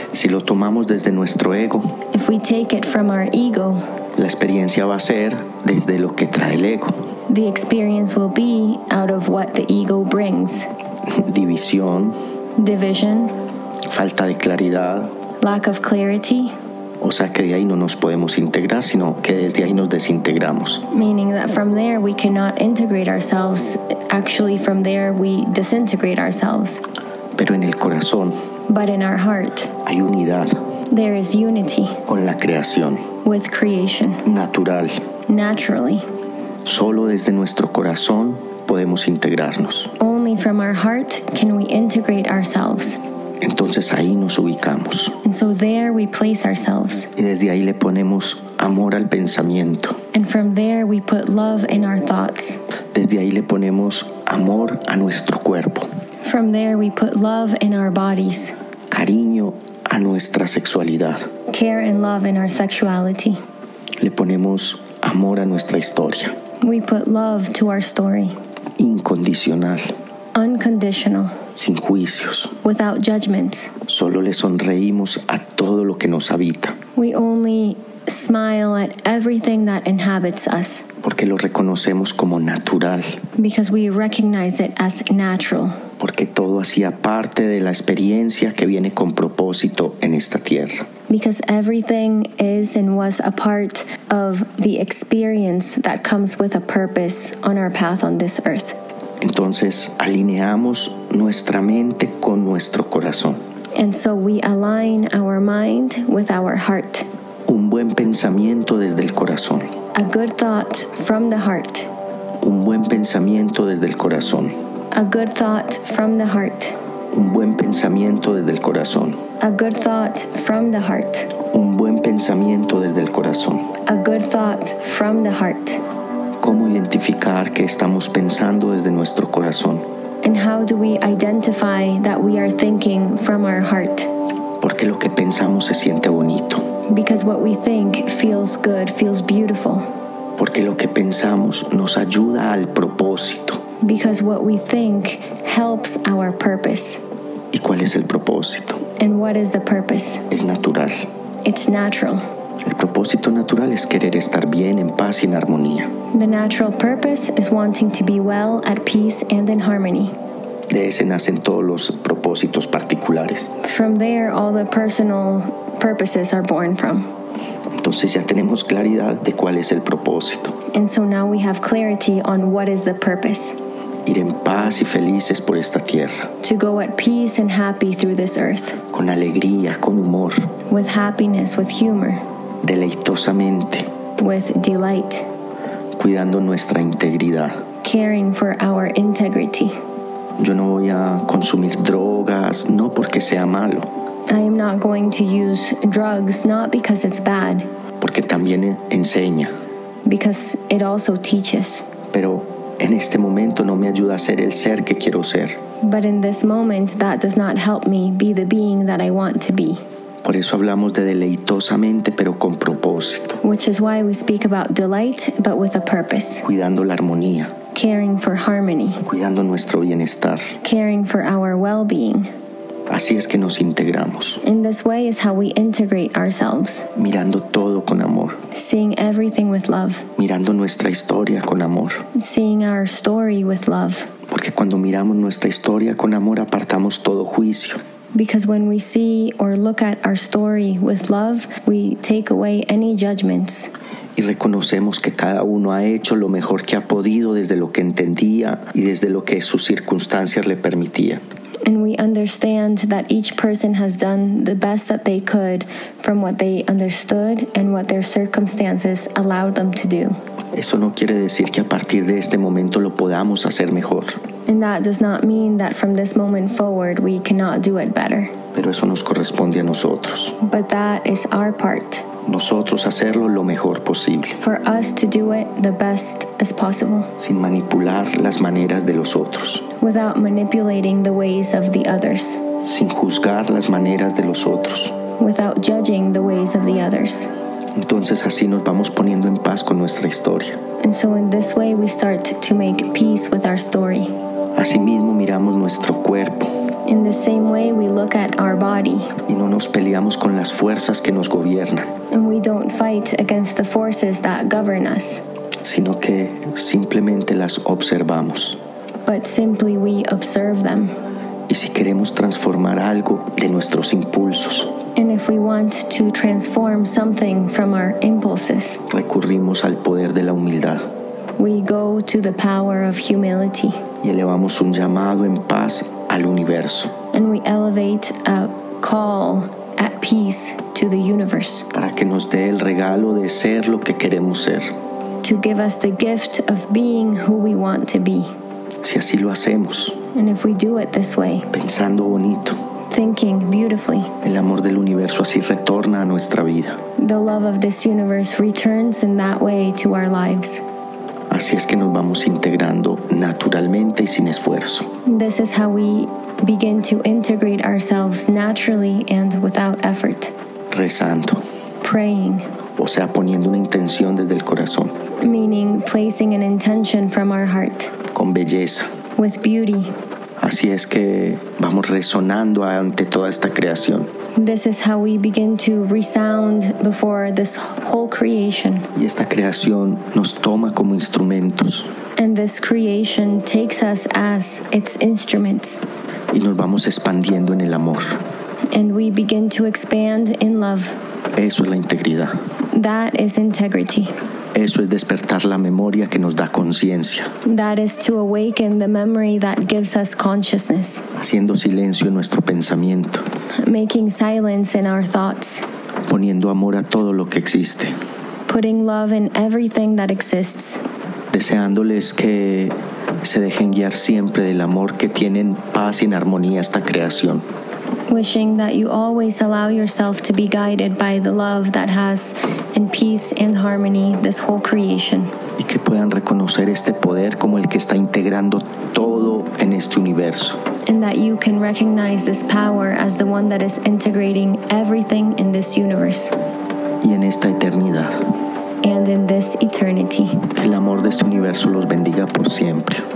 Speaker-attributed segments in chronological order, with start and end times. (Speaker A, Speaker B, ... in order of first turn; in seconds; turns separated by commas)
Speaker A: 0.1-1.9, Speaker B: 2.1-3.8, Speaker A: 4.2-6.9, Speaker B: 7.3-10.7, Speaker A: 11.1-12.2, Speaker B: 12.6-13.3, Speaker A: 13.9-15.1, Speaker B: 15.4-16.5, Speaker A: 17.0-20.8, Speaker B: 20.9-26.8, Speaker A: 27.4-28.3, Speaker B: 28.7-29.7, Speaker A: 29.8-30.5, Speaker B: 30.9-32.0, Speaker A: 32.1-33.0, Speaker B: 33.2-34.2, Speaker A: 34.2-34.9, Speaker B: 35.3-36.0, Speaker A: 36.6-39.9, Speaker B: 40.0-43.0, Speaker A: 43.4-45.1, Speaker B: 45.2-47.1, Speaker A: 47.1-50.0, Speaker B: 50.1-52.6, Speaker A: 52.9-55.9, Speaker B: 56.2-58.5, Speaker A: 58.9-61.3, Speaker B: 61.5-63.4, Speaker A: 64.0-66.3, Speaker B: 66.6-68.3, Speaker A: 68.8-69.9, Speaker B: 70.3-71.3, Speaker A: 71.5-72.5, Speaker B: 72.6-73.7, Speaker A: 73.9-76.8, Speaker B: 77.0-80.8, Speaker A: 81.0-83.2, Speaker B: 83.4-85.8, Speaker A: 86.0-90.8, Speaker B: 91.1-98.8, Speaker A: 99.2-103.4, Speaker B: 103.8-107.0, Speaker A: 107.5-109.7, Speaker B: 109.9-111.9, Speaker A: 112.4-114.5, Speaker B: 114.9-116.8, Speaker A: 117.1-119.2, Speaker B: 119.4-121.3, Speaker A: 121.5-123.6, Speaker B: 123.9-125.8, Speaker A: 126.4-129.8, Speaker B: 130.2-134.1, Speaker A: 134.6-136.6, Speaker B: 136.9-139.8, Speaker A: 140.4-143.6, Speaker B: 143.8-147.0, Speaker A: 147.5-148.8, Speaker B: 149.0-150.2, Speaker A: 150.3-151.1, Speaker B: 151.4-152.2, Speaker A: 152.6-155.9, Speaker B: 156.1-160.1, Speaker A: 160.7-163.5, Speaker B: 163.6-167.1, Speaker A: 167.8-170.5, Speaker B: 170.7-173.6, Speaker A: 174.0-176.3, Speaker B: 176.4-178.8, Speaker A: 178.9-180.4, Speaker B: 180.7-182.2, Speaker A: 182.6-183.9, Speaker B: 184.2-185.2, Speaker A: 185.9-187.6, Speaker B: 187.8-189.7, Speaker A: 190.4-193.9, Speaker B: 194.3-197.7, Speaker A: 198.0-199.5, Speaker B: 200.1-201.9, Speaker A: 202.1-205.6, Speaker B: 205.8-209.8, Speaker A: 210.2-213.4, Speaker B: 213.4-216.4, Speaker A: 216.4-217.5, Speaker B: 217.7-219.0, Speaker A: 219.1-220.5, Speaker B: 220.6-222.3, Speaker A: 222.9-224.4, Speaker B: 224.4-226.9, Speaker A: 226.9-228.4, Speaker B: 228.5-230.1, Speaker A: 230.2-232.0, Speaker B: 232.1-234.1, Speaker A: 234.3-237.8, Speaker B: 238.1-243.7, Speaker A: 244.2-251.2, Speaker B: 251.7-260.1, Speaker A: 260.5-264.2, Speaker B: 264.5-268.3, Speaker A: 268.5-270.4, Speaker B: 270.4-272.1, Speaker A: 272.2-274.4, Speaker B: 274.4-277.1, Speaker A: 277.2-279.6, Speaker B: 279.8-282.4, Speaker A: 282.6-284.9, Speaker B: 285.2-287.3, Speaker A: 287.8-290.6, Speaker B: 290.8-294.1, Speaker A: 294.6-296.5, Speaker B: 296.9-299.1, Speaker A: 299.3-301.9, Speaker B: 302.1-305.2, Speaker A: 305.6-308.6, Speaker B: 309.1-310.9, Speaker A: 311.5-314.7, Speaker B: 314.9-318.8, Speaker A: 318.9-320.9, Speaker B: 321.4-323.8, Speaker A: 324.0-326.9, Speaker B: 327.1-331.7, Speaker A: 331.7-334.8, Speaker B: 335.2-338.3, Speaker A: 338.8-339.9, Speaker B: 340.1-341.5, Speaker A: 341.5-342.6, Speaker B: 342.9-344.1, Speaker A: 344.2-346.8, Speaker B: 347.0-350.6, Speaker A: 351.3-354.9, Speaker B: 355.1-360.3, Speaker A: 360.7-361.4, Speaker B: 361.8-362.4, Speaker A: 362.8-364.9, Speaker B: 365.2-367.9, Speaker A: 368.1-368.9, Speaker B: 369.2-369.9, Speaker A: 370.4-374.1, Speaker B: 374.4-378.9, Speaker A: 378.9-381.9, Speaker B: 382.2-385.8, Speaker A: 386.3-388.2, Speaker B: 388.7-391.0, Speaker A: 391.4-392.4, Speaker B: 392.7-394.1, Speaker A: 394.5-397.3, Speaker B: 397.4-401.0, Speaker A: 401.1-403.2, Speaker B: 403.6-405.6, Speaker A: 406.1-407.9, Speaker B: 408.5-410.8, Speaker A: 411.3-417.4, Speaker B: 418.1-425.3, Speaker A: 425.6-430.6, Speaker B: 430.9-436.3, Speaker A: 437.0-438.3, Speaker B: 438.8-440.5, Speaker A: 440.5-443.0